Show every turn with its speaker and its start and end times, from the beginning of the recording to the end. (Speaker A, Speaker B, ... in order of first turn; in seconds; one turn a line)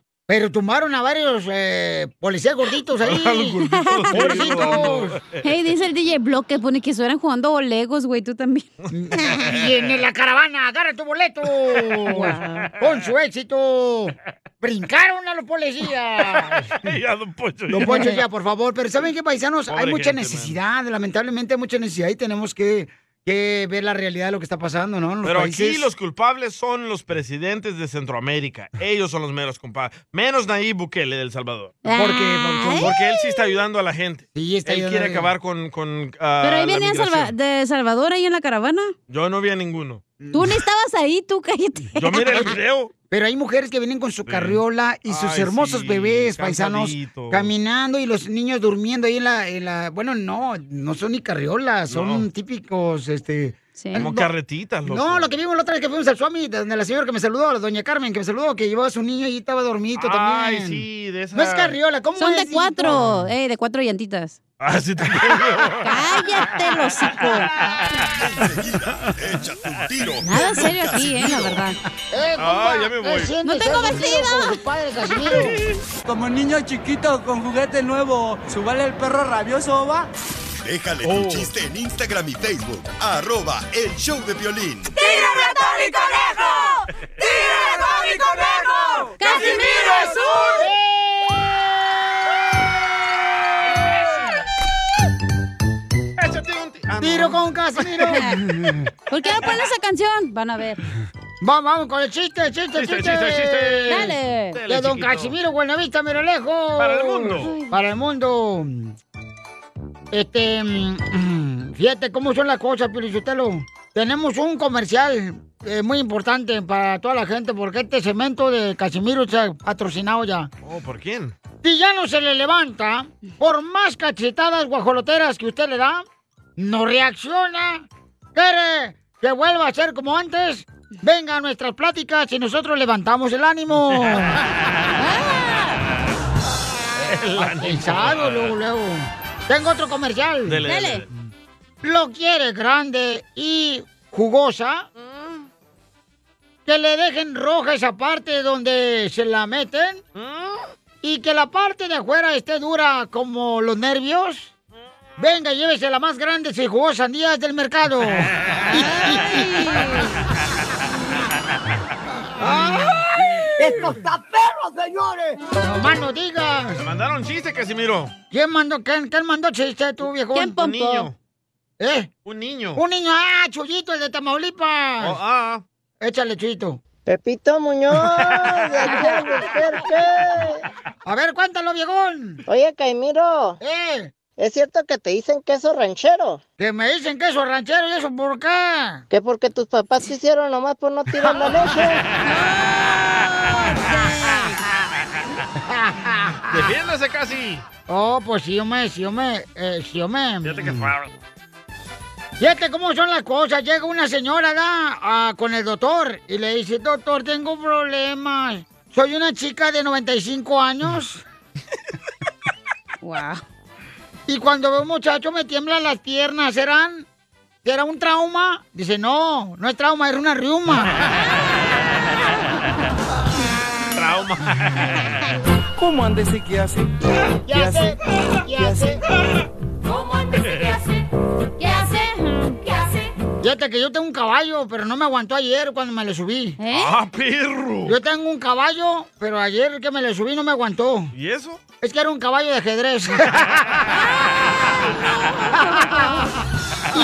Speaker A: 0.3-5.2
Speaker B: 3.0-5.4
Speaker C: 3.8-4.7
Speaker C: 5.4-8.7
Speaker A: 8.9-16.9
Speaker B: 11.7-12.2
Speaker C: 12.1-12.7
Speaker B: 16.3-18.0
Speaker A: 17.7-25.9
Speaker C: 17.9-18.1
Speaker B: 19.7-20.6
Speaker B: 25.2-31.8
Speaker C: 31.8-32.9
Speaker A: 31.9-32.9
Speaker B: 32.8-37.3
Speaker A: 34.3-35.3
Speaker C: 36.4-38.9
Speaker B: 39.1-40.0
Speaker A: 40.2-40.5
Speaker C: 40.3-42.5
Speaker B: 42.0-42.9
Speaker A: 43.1-54.3
Speaker B: 44.3-47.5
Speaker B: 51.9-52.2
Speaker C: 53.8-54.0
Speaker B: 53.9-55.3
Speaker A: 54.9-63.1
Speaker B: 60.0-61.8
Speaker C: 62.2-64.4
Speaker B: 62.9-63.1
Speaker B: 64.6-66.2
Speaker C: 65.8-67.5
Speaker D: 68.2-71.7
Speaker C: 70.2-71.8
Speaker A: 72.1-75.6
Speaker B: 72.4-73.3
Speaker C: 73.4-74.6
Speaker E: 76.0-80.1
Speaker D: 80.6-85.0
Speaker B: 81.0-81.5
Speaker C: 89.2-90.6
Speaker B: 96.2-98.2
Speaker A: 97.0-98.9
Speaker C: 99.1-100.8
Speaker A: 101.4-104.2
Speaker B: 102.7-105.3
Speaker C: 103.9-104.6
Speaker A: 104.7-109.0
Speaker B: 106.8-107.5
Speaker C: 107.4-107.7
Speaker A: 110.1-120.5
Speaker B: 120.6-121.3
Speaker A: 121.6-126.0
Speaker A: 126.6-134.4
Speaker B: 134.3-134.8
Speaker C: 135.0-135.8
Speaker A: 137.0-141.2
Speaker B: 137.1-138.5
Speaker B: 140.4-141.1
Speaker C: 140.7-141.0
Speaker A: 141.8-144.9
Speaker A: 146.7-150.0
Speaker B: 150.2-150.6
Speaker A: 151.0-154.5
Speaker A: 155.2-158.9
Speaker C: 158.7-160.2
Speaker A: 162.4-163.0
Speaker A: 163.6-164.0
Speaker A: 165.5-166.8
Speaker B: 166.8-168.1
Speaker A: 168.3-170.6
Speaker C: 170.3-171.1
Speaker B: 170.6-171.1
Speaker A: 171.8-172.1
Speaker B: 172.2-172.8
Speaker A: 172.7-175.2
Speaker B: 175.0-175.6
Speaker A: 176.0-176.8
Speaker F: 177.1-180.6
Speaker A: 181.0-182.4
Speaker F: 182.4-183.6
Speaker A: 183.6-184.1
Speaker F: 184.4-186.4
Speaker A: 186.6-189.0
Speaker F: 189.1-192.0
Speaker C: 192.2-194.6
Speaker A: 195.6-196.7
Speaker B: 196.5-197.6
Speaker A: 197.9-200.9
Speaker B: 200.4-201.1
Speaker A: 202.4-211.2
Speaker C: 213.0-213.4
Speaker A: 214.3-217.1
Speaker A: 217.6-221.0
Speaker B: 223.9-225.3
Speaker E: 225.8-228.0
Speaker A: 227.5-229.0
Speaker E: 228.5-229.0
Speaker C: 231.6-232.6
Speaker A: 233.4-236.6
Speaker C: 236.6-236.9
Speaker B: 236.7-238.0
Speaker A: 237.8-241.1
Speaker B: 241.1-241.6
Speaker A: 241.8-243.9
Speaker B: 243.5-243.8
Speaker C: 245.0-246.3
Speaker A: 245.6-246.0